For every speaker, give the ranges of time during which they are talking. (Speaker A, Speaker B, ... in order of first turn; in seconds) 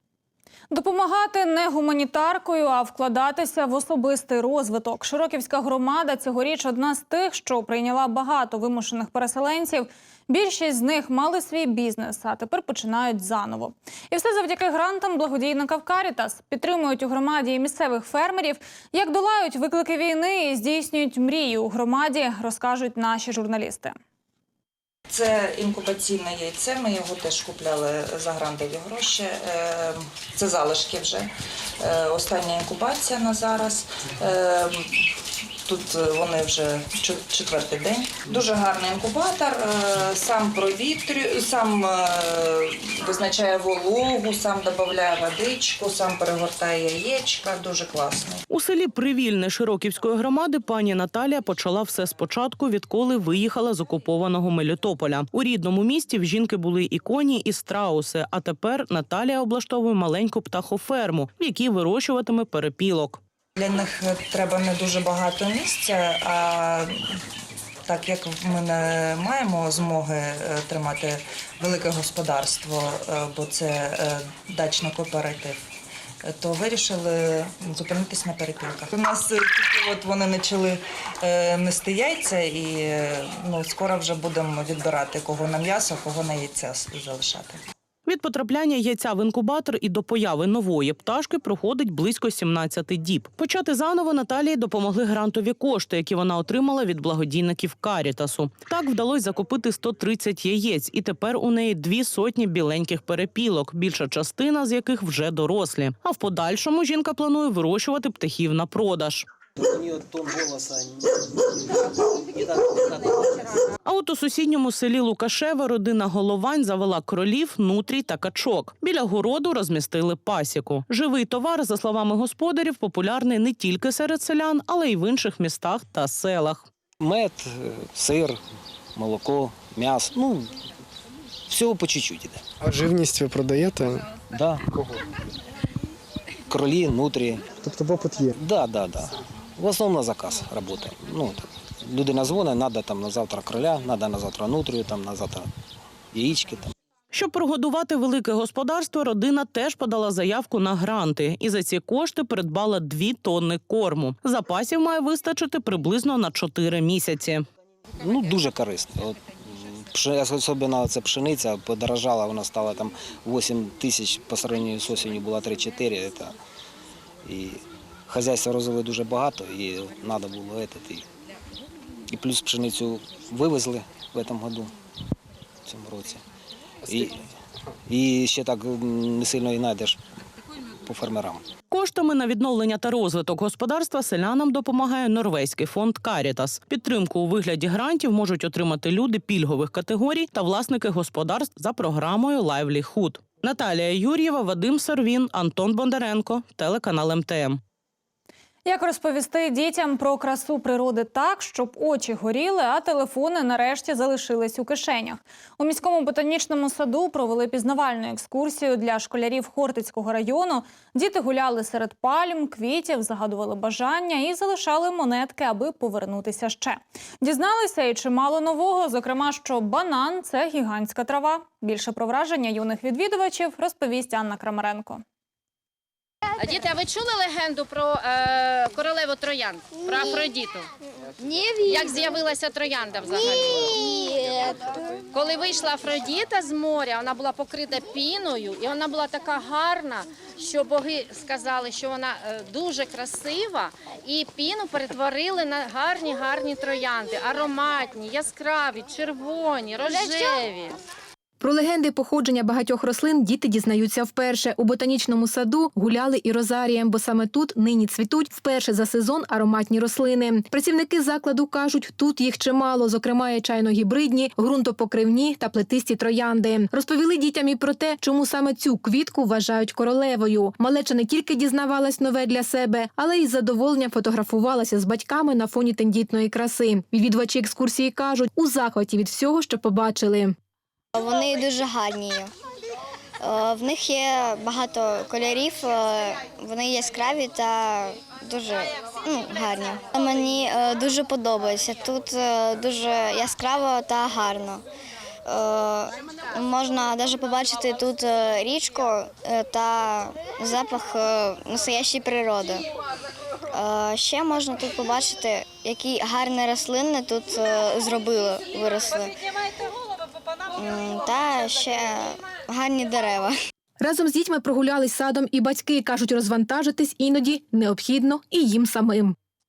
Speaker A: 0.7-23.9, 198.6-225.0
Speaker B: 25.1-31.3, 31.8-34.8, 35.6-48.4, 63.5-66.9, 67.9-75.6, 76.3-87.6
Speaker C: 48.5-63.2, 88.0-109.3, 113.8-126.7, 147.1-157.5, 181.7-197.6
Speaker D: 109.5-113.6, 127.0-128.4, 128.9-130.6, 131.5-132.4, 134.3-134.9, 136.5-137.5, 138.3-145.5, 146.1-146.7, 158.0-166.3, 167.2-171.0, 172.1-174.7, 175.7-176.2, 176.8-177.2, 177.9-180.0, 180.8-181.4
Speaker E: 132.6-134.0, 137.6-138.3
Speaker F: 226.4-230.7, 231.7-233.8, 235.1-250.8
Speaker G: 231.2-232.0, 233.1-234.5, 280.9-282.3, 283.2-294.6, 295.2-302.6, 303.5-309.2, 310.5-313.4
Speaker H: 251.4-280.3, 313.8-319.1